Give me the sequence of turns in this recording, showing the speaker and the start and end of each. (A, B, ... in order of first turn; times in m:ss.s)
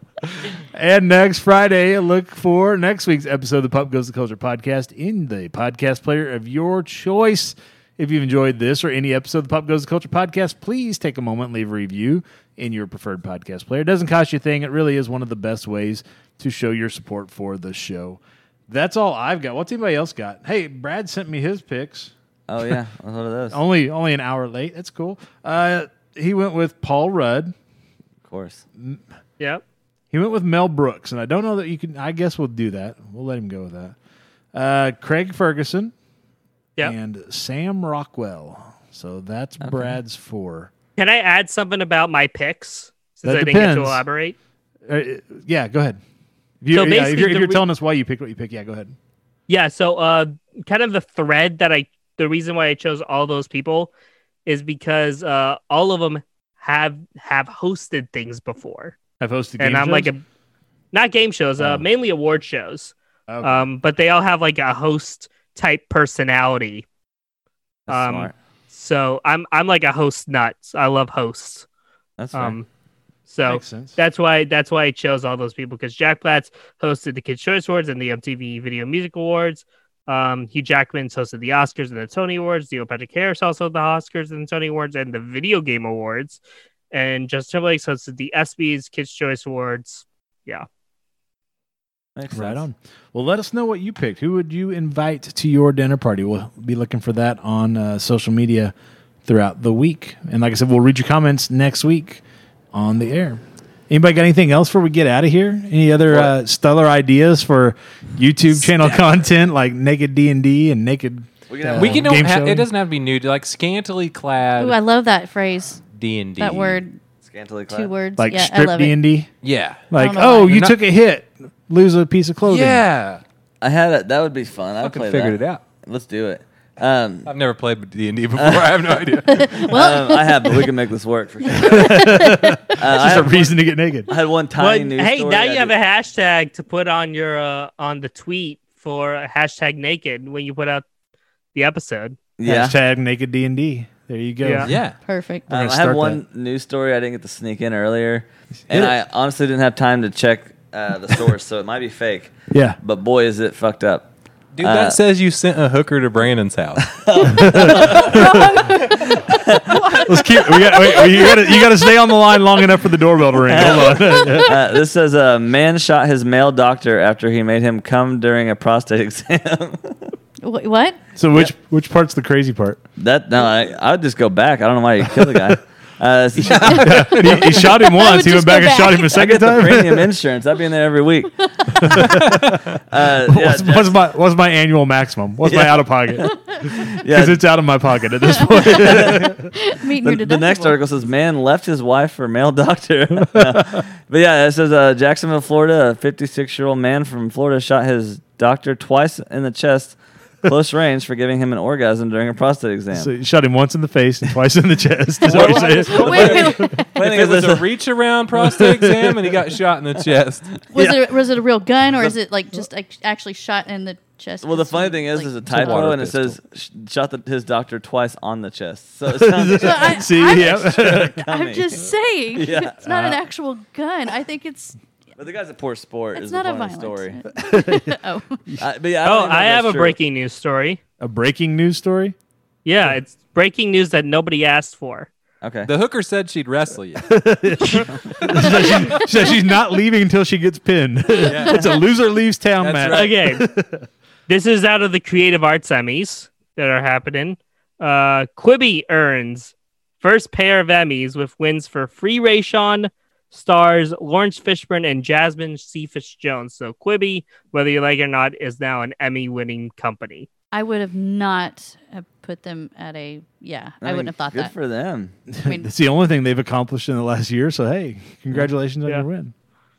0:00.4-0:22.1 A
0:22.5-0:23.6 B
0:23.5-0:27.5 A
0:28.2-0:28.6 B
0:28.8-0:29.0 A
0:30.1-0:34.0 A
0:34.5-0:35.9 A
0:36.8-0:40.7 A
0:39.6-0:40.0 B
0:41.0-0:44.4 C
0:43.2-0:44.0 A
0:44.8-0:46.0 A
0:46.6-0:48.9 A
0:46.7-0:47.6 C
0:49.5-0:53.9 C
0:54.4-0:59.0 C
0:59.2-1:00.1 A
0:59.6-1:00.2 C
1:00.9-1:06.8 C
1:01.6-1:01.8 A
1:03.3-1:03.7 A
1:07.9-1:08.3 B
1:07.9-1:11.7 C
1:12.2-1:12.6 B
1:12.3-1:12.7 C
1:13.3-1:30.6 C
1:13.4-1:14.0 A
1:32.2-1:32.6 B
1:32.3-1:38.7 A
1:39.2-1:42.2 A
1:42.7-1:52.7 A
1:46.1-1:46.3 B
1:48.6-1:49.1 B
1:51.5-1:52.1 B
1:51.7-1:54.8 D
1:54.6-1:55.8 E
1:55.9-1:56.8 D
1:56.4-1:57.0 E
1:57.2-1:57.9 B
1:57.7-1:59.0 E
1:58.2-1:59.3 A
1:59.4-1:59.9 D
1:59.9-2:02.8 A
1:59.9-2:00.6 E
2:00.4-2:00.7 D
2:02.4-2:03.2 D
2:03.6-2:07.3 B
2:04.8-2:05.6 D
2:07.2-2:09.7 D
2:08.4-2:09.0 B
2:09.4-2:10.6 E
2:09.6-2:12.1 B
2:11.5-2:12.6 E
2:11.6-2:14.1 A
2:12.8-2:13.6 B
2:14.1-2:15.7 B
2:14.6-2:20.8 C
2:21.5-2:22.2 C
2:22.4-2:22.8 B
2:22.4-2:24.7 A
2:24.4-2:24.7 C
2:24.6-2:25.0 D
2:25.0-2:25.4 E
2:25.5-2:26.2 A
2:25.5-2:34.1 B
2:28.7-2:29.0 A
2:32.5-2:32.8 A
2:34.5-2:36.9 D
2:34.6-2:35.0 B
2:37.0-2:39.7 B
2:37.2-2:38.6 A
2:40.0-2:44.6 A
2:43.4-2:50.1 B
2:50.4-2:51.0 E
2:51.2-2:52.8 A
2:53.0-2:57.4 B
2:56.4-2:57.7 D
2:56.4-3:00.2 A
2:57.6-2:59.1 E
2:59.1-3:02.1 B
3:01.8-3:09.5 A
3:02.0-3:02.6 D
3:02.9-3:04.0 B
3:05.4-3:05.9 B
3:06.7-3:07.4 B
3:08.3-3:10.8 E
3:08.6-3:09.3 B
3:10.0-3:23.1 B
3:13.2-3:13.8 A
3:22.9-3:26.8 A
3:25.3-3:30.6 D
3:25.4-3:26.9 E
3:26.0-3:27.7 B
3:28.4-3:29.3 A
3:30.7-3:31.2 B
3:30.7-3:35.9 E
3:34.4-3:42.9 B
3:35.4-3:36.4 D
3:39.0-3:41.2 A
3:39.5-3:44.8 E
3:42.8-3:43.2 A
3:45.2-3:47.2 B
3:46.2-3:48.4 E
3:47.4-3:48.6 A
3:48.6-3:50.0 B
3:49.0-3:50.8 C
3:51.0-3:52.1 A
3:52.6-3:55.1 C
3:55.4-3:55.7 B
3:55.6-3:57.1 D
3:57.1-4:03.8 A
3:58.3-3:58.6 D
4:01.2-4:01.7 D
4:02.6-4:03.1 D
4:02.9-4:03.4 C
4:04.3-4:20.3 C
4:20.5-4:24.5 E
4:23.8-4:25.1 B
4:25.3-4:29.3 A
4:25.4-4:25.7 E